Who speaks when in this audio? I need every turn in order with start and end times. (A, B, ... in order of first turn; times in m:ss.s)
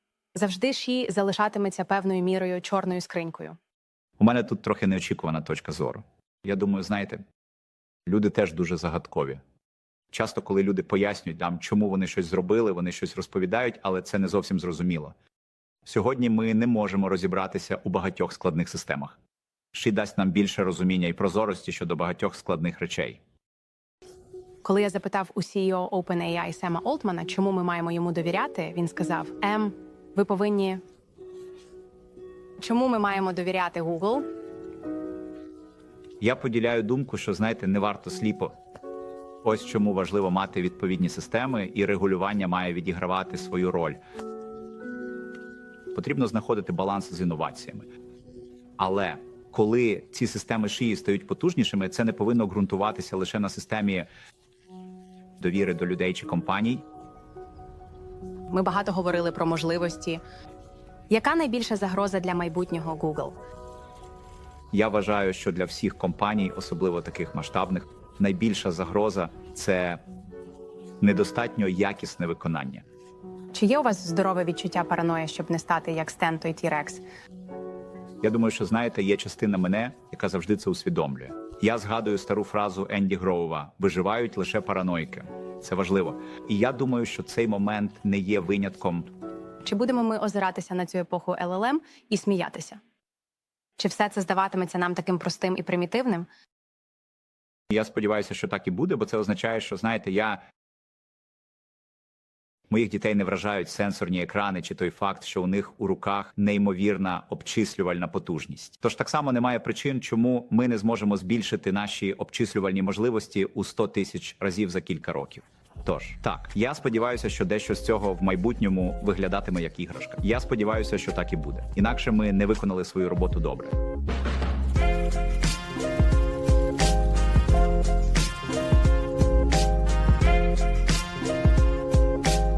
0:00.4-0:03.6 A
0:04.2-0:07.2 B
0:08.1-0:09.4 B
0:10.1-0:15.1 B
0:15.9-0:19.2 B
0:19.7-0:23.2 B
0:24.6-0:30.8 A
0:32.6-0:34.2 A
0:36.2-0:38.6 B
0:39.4-0:44.0 B
0:45.9-0:47.9 B
0:48.8-0:54.1 B
0:55.4-0:56.8 B
0:58.5-1:00.2 A
1:01.1-1:03.4 A
1:04.7-1:10.0 B
1:11.0-1:12.8 B
1:13.5-1:17.0 A
1:18.2-1:29.1 B
1:29.6-1:32.8 A
1:33.8-1:36.3 A
1:37.7-1:40.4 B
1:42.7-2:03.8 B